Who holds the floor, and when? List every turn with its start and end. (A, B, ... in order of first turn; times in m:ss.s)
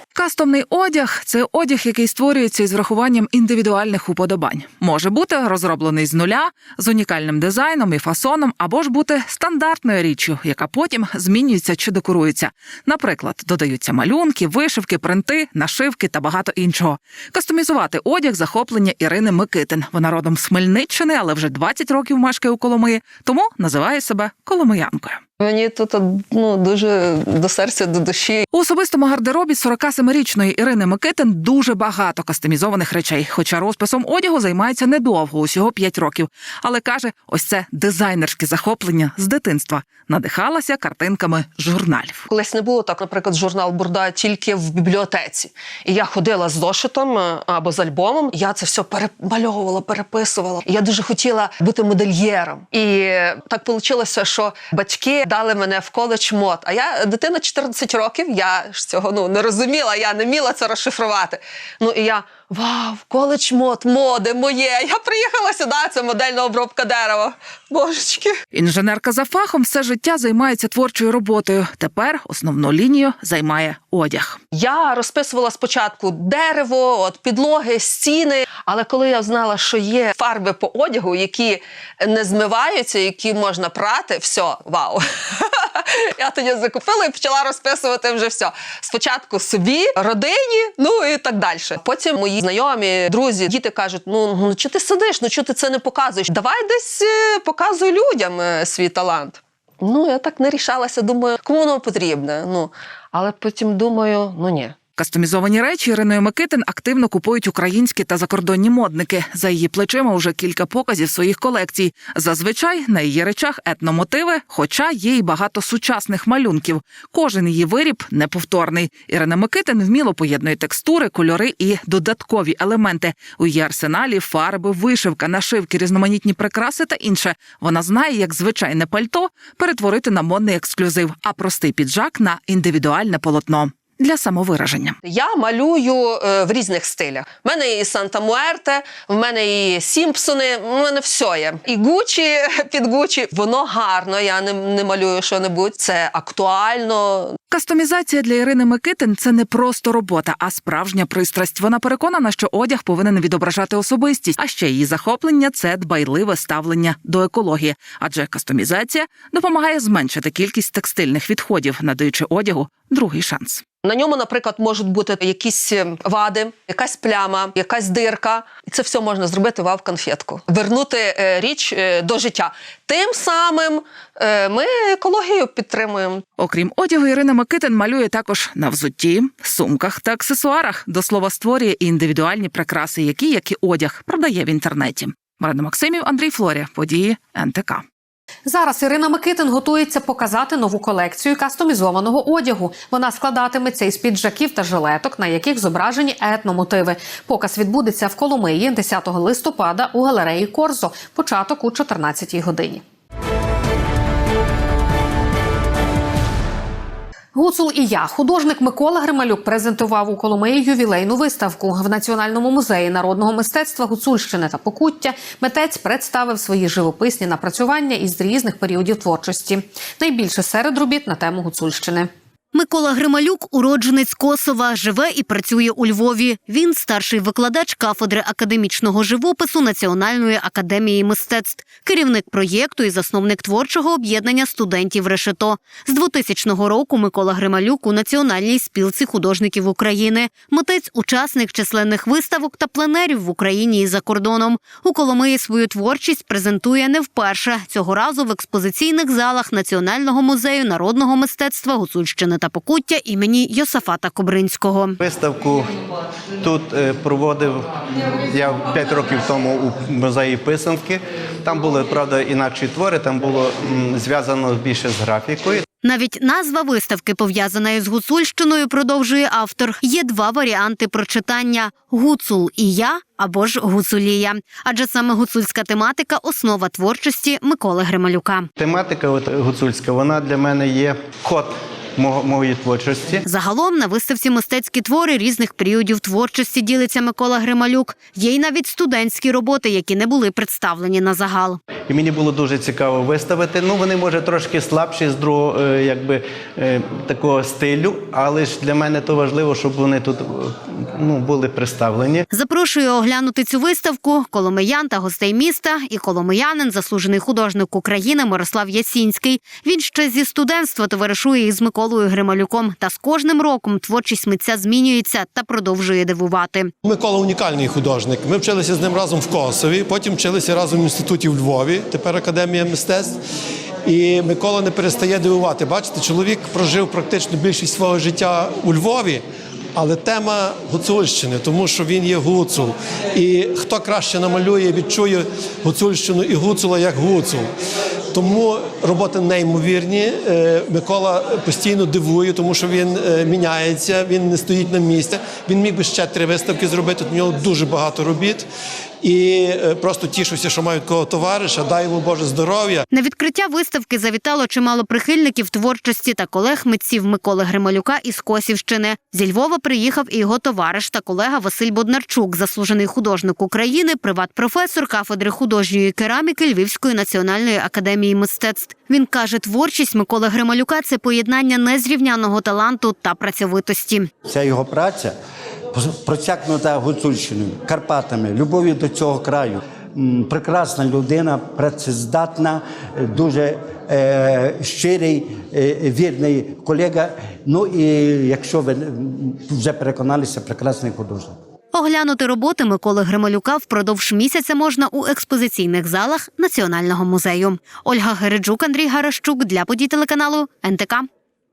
0:00.2-0:25.2 A
0:25.4-0:28.4 B
0:28.5-0:42.2 A
0:42.3-1:08.4 B
1:08.5-1:14.4 A
1:14.5-1:44.7 B
1:45.0-2:15.0 A
2:15.0-2:27.3 B
2:27.5-2:43.6 A
2:43.8-2:56.2 B
2:56.4-3:07.8 A
3:08.5-3:22.8 C
3:27.4-3:42.1 C
3:42.5-4:15.0 D
4:15.0-4:15.7 E
4:16.4-4:25.6 E
4:25.8-4:38.5 D
4:38.6-4:43.2 E
4:43.3-4:51.6 D
4:51.9-5:02.2 E
5:02.3-5:16.7 D
5:16.8-5:23.2 F
5:23.9-5:29.2 F
5:29.8-5:37.5 F
5:38.1-5:48.5 F
5:49.0-5:52.8 F
5:52.9-6:14.1 D
6:14.2-6:15.1 G
6:15.7-6:31.4 G
6:31.7-6:41.1 D